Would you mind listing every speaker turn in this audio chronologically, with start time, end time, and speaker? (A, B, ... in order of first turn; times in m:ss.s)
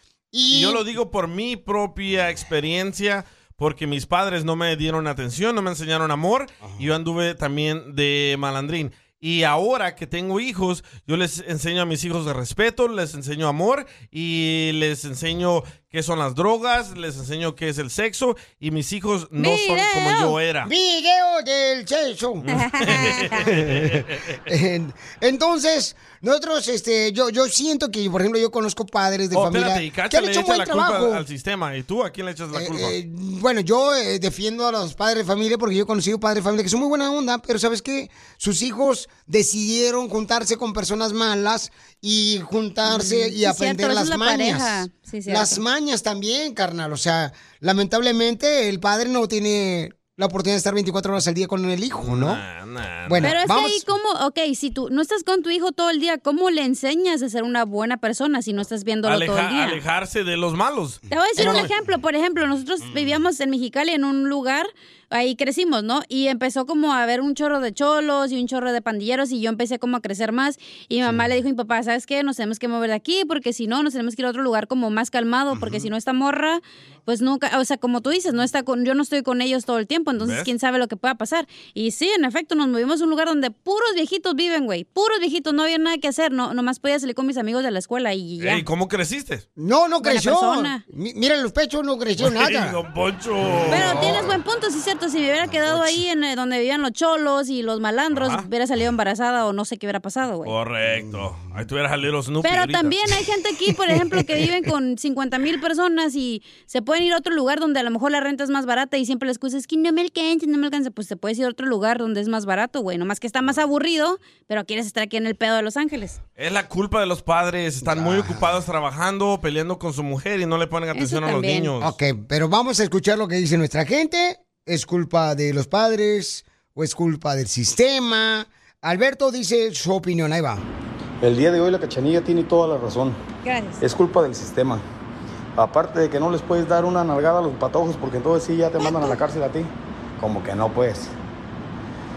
0:00.3-0:00.8 A
0:00.5-0:20.7 B
0:19.4-0:20.4 C
0:20.6-0:22.4 A
0:22.4-0:24.3 B
0:22.5-0:23.3 C
0:23.4-0:31.2 A
0:29.3-0:33.0 B
0:32.5-0:52.4 A
0:42.8-0:45.6 C
0:52.0-0:53.3 B
0:53.1-0:53.8 A
0:53.2-0:59.8 C
0:59.0-1:01.7 B
1:01.1-1:28.6 C
1:01.4-1:01.7 A
1:15.5-1:15.9 A
1:20.2-1:20.5 B
1:28.4-1:29.4 B
1:29.6-1:32.8 A
1:30.0-1:30.8 C
1:32.2-1:34.3 B
1:33.6-1:34.4 A
1:33.7-1:40.5 C
1:38.1-1:38.4 B
1:40.5-1:43.0 B
1:42.4-1:56.2 C
1:56.4-2:02.0 B
1:57.8-1:58.5 A
2:00.9-2:01.7 C
2:01.8-2:10.6 A
2:11.2-2:13.2 D
2:13.4-2:13.8 C
2:13.8-2:14.8 D
2:15.6-2:21.1 D
2:18.8-2:19.2 C